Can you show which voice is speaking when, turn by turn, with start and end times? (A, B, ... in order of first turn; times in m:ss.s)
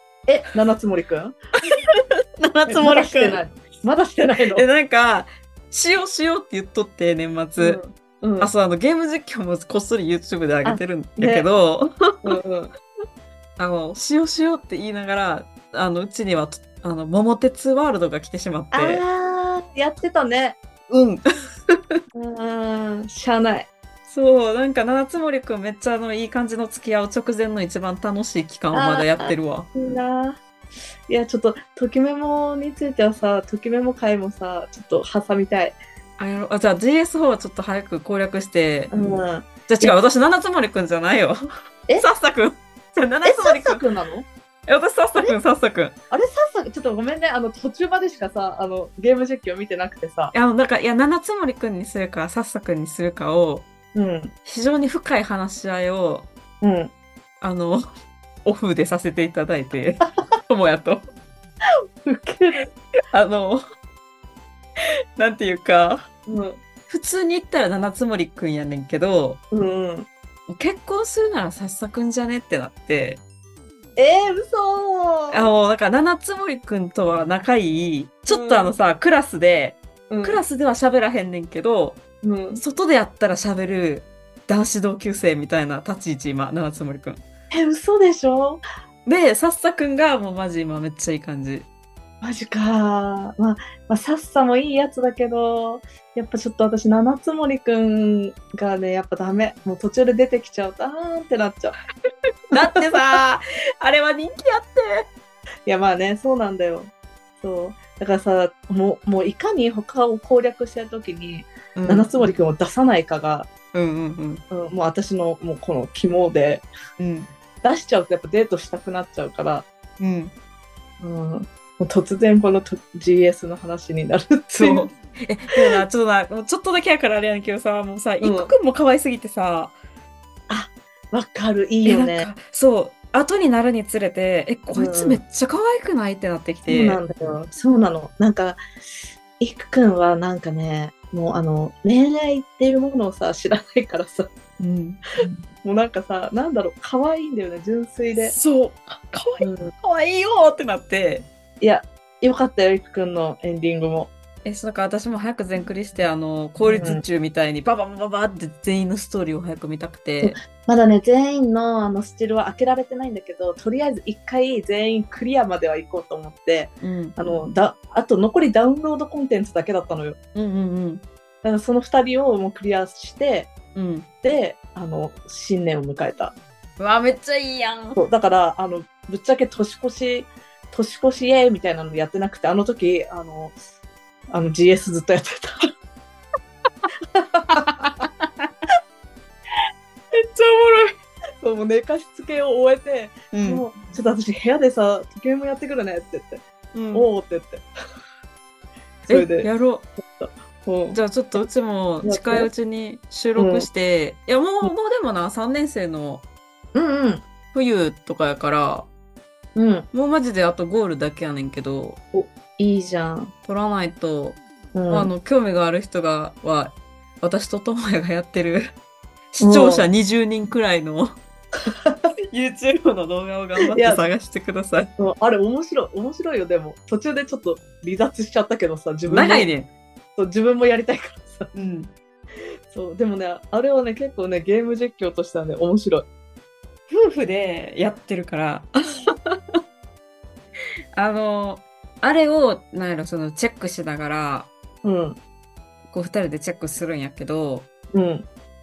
0:00.3-0:01.4 A
0:02.4-0:03.4 B
0:02.7-0:04.6 A
0:04.5-0:07.8 B
0:07.6-0:08.5 A
0:08.4-0:12.4 B
0:10.6-0:11.5 A
0:12.2-0:12.7 A
0:13.6-0:19.0 B
0:18.7-0:20.6 A
0:20.9-0:22.0 B
0:22.1-0:23.7 A
0:24.1-0:29.7 B
0:28.7-0:30.4 A
0:31.1-0:35.8 A
0:36.2-0:38.9 B
0:38.9-0:39.9 A
0:39.7-0:41.5 B
0:42.0-0:43.8 B
0:43.2-0:44.3 A
0:44.7-0:46.0 B
0:46.1-0:50.3 A
0:50.3-0:53.7 B
0:53.9-0:54.3 A
0:54.4-0:56.3 B
0:56.6-0:56.9 A
0:57.4-0:57.8 B
0:58.4-1:01.0 B
1:02.0-1:02.7 A
1:03.1-1:03.6 B
1:05.2-1:06.1 B
1:06.3-1:06.6 A
1:06.9-1:09.4 B
1:09.5-1:10.1 A
1:10.5-1:13.2 B
1:14.0-1:15.4 A
1:15.3-1:22.0 B
1:18.3-1:18.7 A
1:20.1-1:20.4 A
1:22.2-1:22.6 A
1:22.6-1:27.2 B
1:27.5-1:28.6 A
1:29.1-1:31.7 B
1:32.2-1:41.8 A
1:42.5-1:45.1 B
1:45.7-1:53.5 A
1:51.8-1:52.1 B
1:53.7-1:54.4 B
1:54.5-1:56.7 A
1:57.0-1:57.3 B
1:57.6-1:59.7 A
2:00.0-2:00.3 B
2:01.0-2:04.9 A
2:04.5-2:09.8 B
2:05.5-2:05.8 A
2:08.2-2:08.5 A
2:10.5-2:12.3 A
2:11.8-2:17.0 B
2:14.7-2:15.2 A
2:16.7-2:18.6 A
2:19.4-2:24.3 A
2:24.6-2:25.0 B
2:25.2-2:28.4 A
2:28.2-2:31.3 B
2:29.4-2:29.7 A
2:31.6-2:34.1 A
2:34.4-2:40.4 B
2:36.6-2:37.0 A
2:40.2-2:50.2 A
2:46.8-2:47.2 B
2:50.4-2:51.0 B
2:51.4-2:53.5 A
2:53.8-2:54.1 B
2:54.2-2:56.3 A
2:56.8-2:58.0 B
2:57.9-3:03.6 A
3:04.3-3:05.7 A
3:07.1-3:07.9 A
3:07.5-3:08.5 B
3:10.2-3:10.9 B
3:11.4-3:17.6 A
3:13.3-3:13.6 B
3:16.7-3:17.1 B
3:19.1-3:19.5 A
3:19.1-3:19.9 B
3:20.1-3:21.0 A
3:20.9-3:26.2 B
3:22.0-3:22.5 A
3:23.4-3:23.7 A
3:26.7-3:27.2 A
3:27.5-3:28.9 B
3:29.6-3:29.9 A
3:29.9-3:32.0 B
3:32.1-3:33.3 A
3:33.4-3:38.7 B
3:34.8-3:35.1 A
3:39.3-3:41.2 B
3:39.4-3:39.9 A
3:41.7-3:42.1 A
3:42.3-3:44.9 B
3:43.7-3:44.0 A
3:45.0-3:49.5 A
3:49.1-3:49.7 B
3:50.2-3:51.5 A
3:51.5-3:51.9 B
3:52.7-3:56.1 A
3:56.9-3:59.6 B
4:00.9-4:04.5 B
4:04.8-4:05.2 A
4:05.9-4:07.7 B
4:07.9-4:08.3 A